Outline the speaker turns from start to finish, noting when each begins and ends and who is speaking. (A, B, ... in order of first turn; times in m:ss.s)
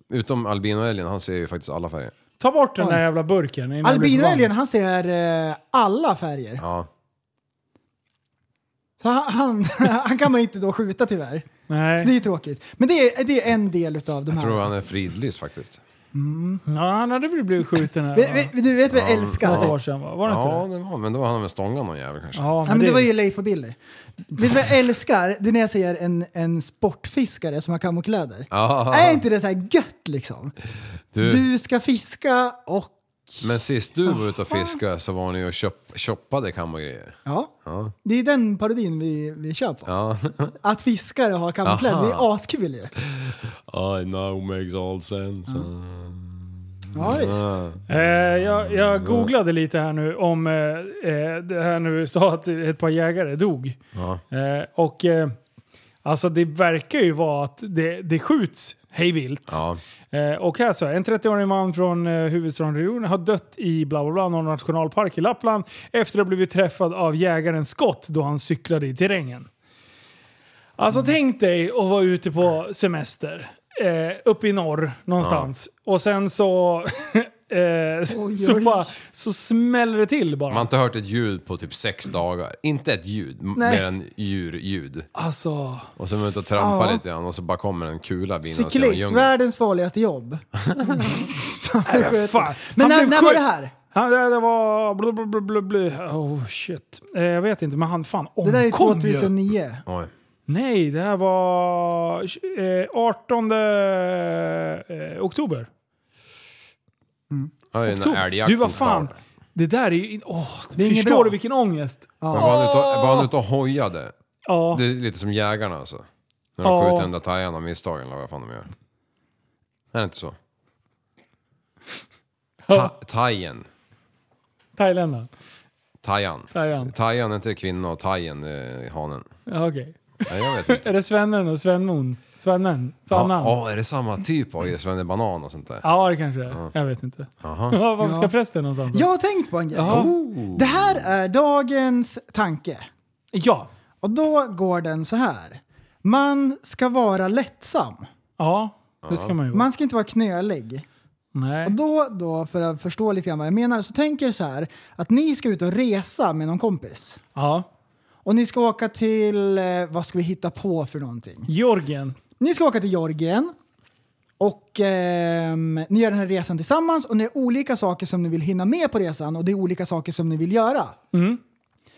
0:00.1-0:02.1 A
0:02.4-0:04.5 B
0:03.8-0:06.6 C
0:06.6-0:06.9 A
0:09.0-0:14.7 C
0:11.7-0:12.1 B
0:14.3-0:15.8 A
0:16.1-0:16.6 C
0:16.7-0:18.5 B
0:18.1-0:19.7 C
0:18.9-0:22.5 A
0:19.4-0:20.7 B
0:22.4-0:23.1 B
0:22.7-0:23.8 C
0:24.3-0:30.5 C
0:28.5-0:29.2 A
0:31.1-0:31.4 A
0:31.2-0:33.4 C
0:33.4-0:37.9 A
0:34.1-0:34.8 C
0:37.3-0:37.5 C
0:38.0-0:39.9 C
0:39.9-0:40.6 A
0:40.6-0:42.9 C
0:41.6-0:42.3 A
0:43.0-0:47.9 A
0:46.9-0:47.6 C
0:47.9-0:53.8 B
0:48.5-0:49.3 A
0:53.9-0:54.2 A
0:54.3-0:55.4 B
0:56.0-1:09.5 B
0:59.5-0:59.8 A
1:10.8-1:20.7 B
1:15.2-1:15.5 A
1:18.1-1:18.9 C
1:20.5-1:25.1 A
1:23.6-1:23.9 B
1:25.2-1:25.9 B
1:26.0-1:29.3 A
1:26.6-1:27.0 C
1:28.4-1:33.7 C
1:30.7-1:31.1 A
1:31.8-1:39.3 B
1:38.4-1:39.8 C
1:39.9-1:40.1 A
1:40.5-1:45.7 B
1:47.7-1:49.2 A
1:47.9-1:53.3 B
1:50.8-1:51.4 C
1:52.2-1:52.6 C
1:52.3-1:54.1 A
1:54.5-1:54.8 B
1:54.7-1:56.1 A
1:56.6-1:58.7 A
1:56.6-1:57.1 B
1:59.9-2:00.4 A
2:02.7-2:03.7 A
2:04.8-2:05.3 B
2:06.0-2:09.3 A
2:06.5-2:06.9 B
2:09.5-2:13.6 B
2:10.3-2:10.8 A
2:13.1-2:15.9 A
2:15.8-2:19.1 B
2:17.4-2:17.8 A
2:18.0-2:18.3 C
2:18.9-2:22.9 C
2:19.7-2:20.1 B
2:19.9-2:21.1 A
2:23.3-2:23.7 B
2:24.0-2:28.1 C
2:28.4-2:29.7 B
2:29.0-2:29.4 A
2:29.5-2:30.8 C
2:31.4-2:31.8 B
2:31.6-2:37.2 C
2:37.4-2:37.7 B
2:38.2-2:41.5 C
2:41.5-2:42.2 B
2:42.4-2:43.6 C
2:44.4-2:51.0 C
2:51.1-2:51.4 B